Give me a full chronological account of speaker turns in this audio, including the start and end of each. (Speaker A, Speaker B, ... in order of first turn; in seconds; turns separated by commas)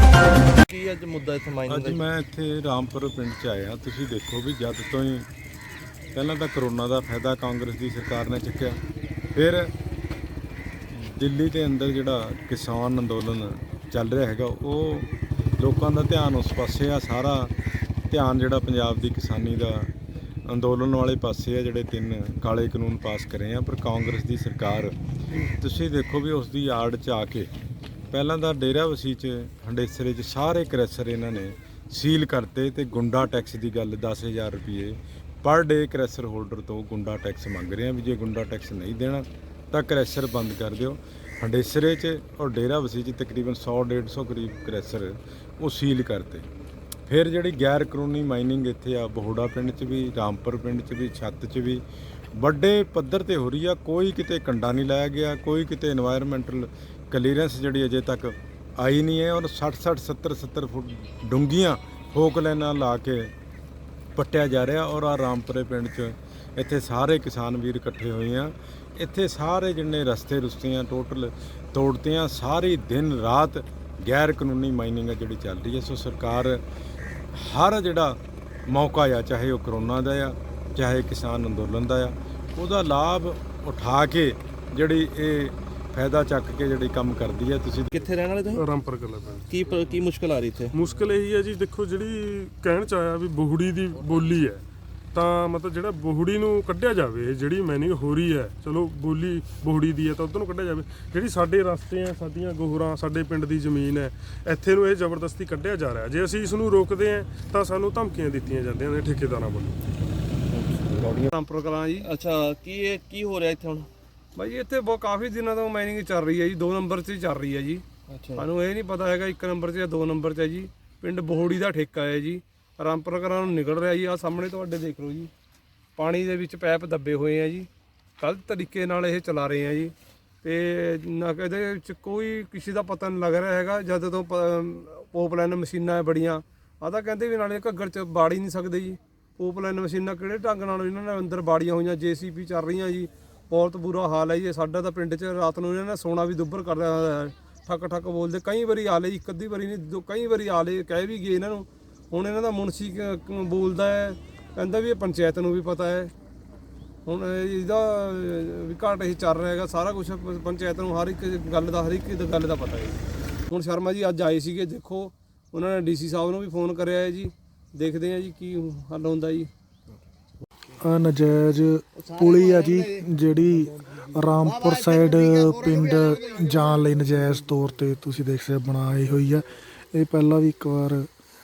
Speaker A: 0.6-2.0, Speaker B: 1.7-5.3, Speaker B: 6.1-8.8, Speaker B: 9.3-9.7, Speaker B: 10.9-17.5, Speaker B: 18.1-19.9, Speaker B: 20.5-24.9, Speaker B: 25.5-27.5, Speaker B: 28.1-46.5, Speaker B: 47.1-51.8, Speaker B: 52.4-63.3, Speaker B: 64.2-76.6, Speaker B: 77.3-88.0, Speaker A: 87.9-88.6, Speaker C: 88.5-90.0, Speaker A: 89.5-90.7, Speaker C: 90.7-94.6, Speaker A: 94.0-94.3, Speaker C: 95.1-109.8, Speaker A: 110.5-111.3, Speaker D: 111.3-112.1, Speaker A: 112.0-113.9, Speaker D: 114.4-117.8, Speaker A: 118.1-118.5, Speaker D: 118.4-125.3, Speaker D: 126.0-127.7, Speaker D: 128.2-156.1, Speaker D: 157.1-169.5, Speaker E: 170.8-181.1